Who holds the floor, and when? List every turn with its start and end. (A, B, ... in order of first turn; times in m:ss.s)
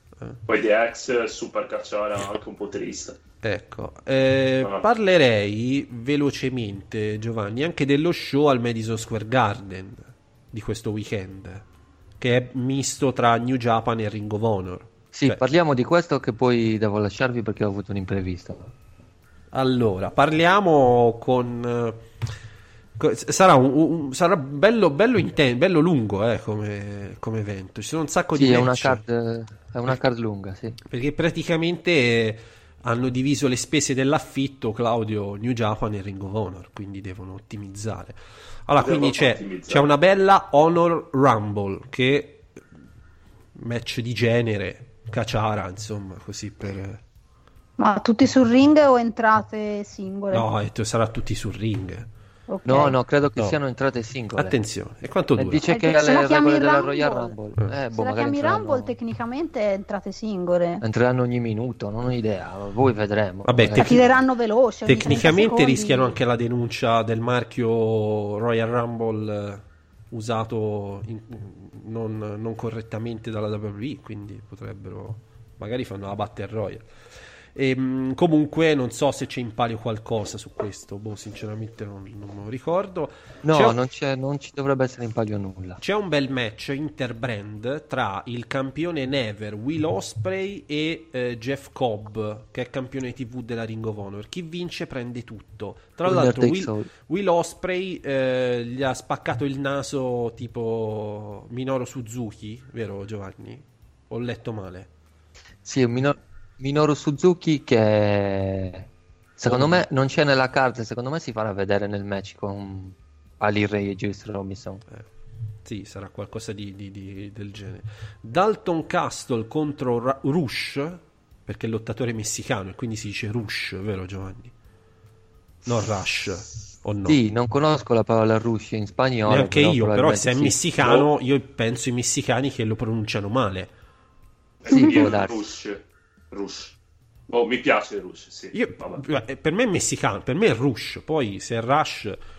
0:00.5-0:03.2 A
0:03.4-0:11.6 B
0:12.2-0:15.4 B
0:15.1-0:18.7 C
0:19.5-0:22.0 B
0:23.0-0:29.0 B
0:28.3-0:30.8 C
0:30.9-0:42.6 B
0:38.8-0:39.9 A
0:43.6-0:47.0 B
0:47.8-0:50.4 D
0:50.3-0:52.1 B
0:52.5-0:53.0 D
0:52.6-0:54.6 C
0:54.4-0:55.6 B
0:55.4-0:58.9 C
0:55.6-0:57.4 D
0:57.9-1:00.8 D
1:00.8-1:04.2 C
1:03.4-1:04.0 B
1:03.8-1:06.2 D
1:04.9-1:16.9 B
1:17.6-1:23.8 B
1:23.4-1:25.8 C
1:25.8-1:44.9 B
1:36.0-1:36.9 C
1:45.6-1:54.8 C
1:49.5-1:49.8 B
1:55.6-2:04.5 B
2:05.6-2:07.2 B
2:07.0-2:10.6 C
2:09.3-2:13.7 B
2:10.8-2:11.1 A
2:14.6-2:16.8 A
2:14.7-2:15.4 C
2:17.3-2:19.0 A
2:18.5-2:22.2 B